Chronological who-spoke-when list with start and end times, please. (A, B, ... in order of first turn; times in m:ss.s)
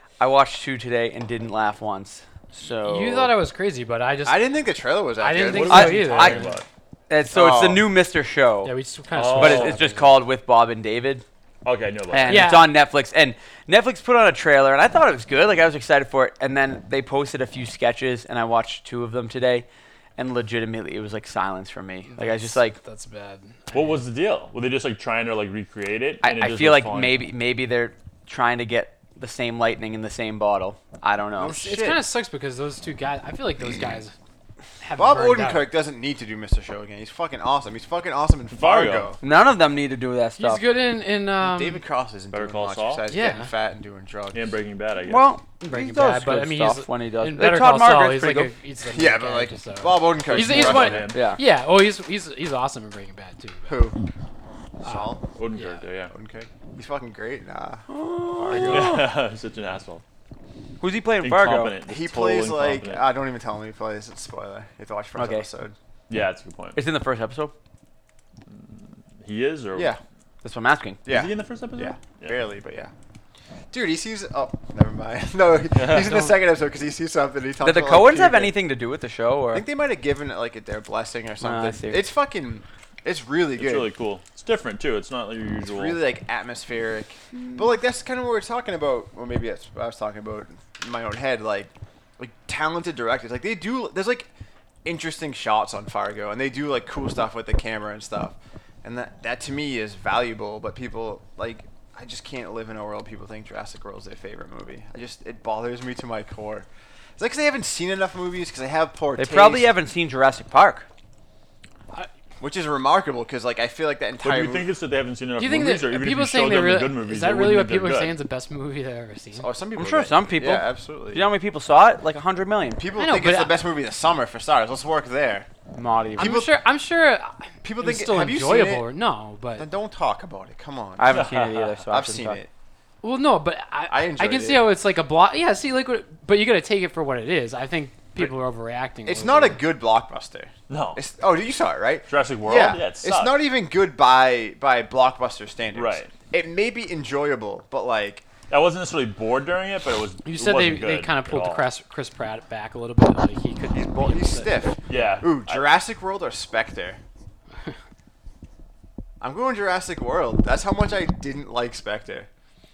0:00.2-0:03.3 A
0:02.8-0:04.4 B
0:04.2-0:05.8 C
0:05.2-0:06.5 B
0:05.4-0:06.6 D
0:05.7-0:06.5 A
0:07.1-0:08.7 A
0:07.3-0:07.9 C
0:08.6-0:10.2 B
0:09.1-0:09.8 D
0:09.3-0:11.2 A
0:11.6-0:12.6 D
0:12.1-0:22.8 A
0:12.2-0:12.7 B
0:22.1-0:23.8 B
0:23.7-0:27.2 D
0:26.2-0:31.6 A
0:31.4-0:32.1 C
0:31.5-0:34.1 B
0:34.8-0:35.6 B
0:35.0-0:39.2 C
0:38.5-0:39.1 D
0:39.2-0:40.6 A
0:40.4-0:41.8 B
0:41.4-0:44.6 C
0:42.3-0:43.0 D
0:43.1-0:43.5 B
0:44.3-0:45.3 D
0:45.0-0:48.5 A
0:45.7-0:53.7 B
0:48.8-0:51.1 C
0:50.2-0:51.2 D
0:51.1-0:51.4 A
0:53.7-0:54.0 C
0:54.8-0:55.2 C
0:54.8-0:55.8 B
0:55.3-0:56.1 D
0:56.1-0:59.0 C
0:57.9-0:59.1 A
0:58.7-1:00.0 D
1:00.8-1:01.7 A
1:01.2-1:03.0 D
1:01.9-1:05.7 C
1:05.1-1:05.5 A
1:06.1-1:06.8 D
1:06.7-1:07.5 A
1:08.5-1:09.9 D
1:09.7-1:10.0 C
1:10.4-1:11.0 A
1:11.0-1:12.9 C
1:11.1-1:12.3 D
1:13.7-1:18.6 C
1:15.8-1:16.3 D
1:17.6-1:19.6 A
1:19.5-1:23.9 C
1:21.4-1:22.1 A
1:23.6-1:26.0 D
1:25.6-1:34.3 C
1:27.4-1:27.6 A
1:34.8-1:46.7 C
1:47.2-1:49.7 C
1:49.2-1:50.9 A
1:52.4-1:54.7 C
1:54.2-1:58.2 D
1:55.4-1:59.5 B
1:59.4-2:01.3 C
1:59.8-2:02.8 A
2:02.8-2:05.5 C
2:03.0-2:03.6 B
2:05.7-2:06.4 A
2:06.2-2:09.6 B
2:06.2-2:06.6 C
2:07.6-2:08.8 C
2:09.6-2:11.2 C
2:11.0-2:12.4 A
2:11.1-2:11.7 D
2:11.9-2:12.5 C
2:13.0-2:19.6 B
2:13.9-2:14.7 C
2:19.0-2:28.3 C
2:20.7-2:21.0 D
2:22.1-2:23.4 D
2:25.7-2:26.1 D
2:28.5-2:31.6 D
2:30.2-2:34.5 B
2:33.7-2:37.0 C
2:34.9-2:35.6 D
2:39.2-2:42.3 C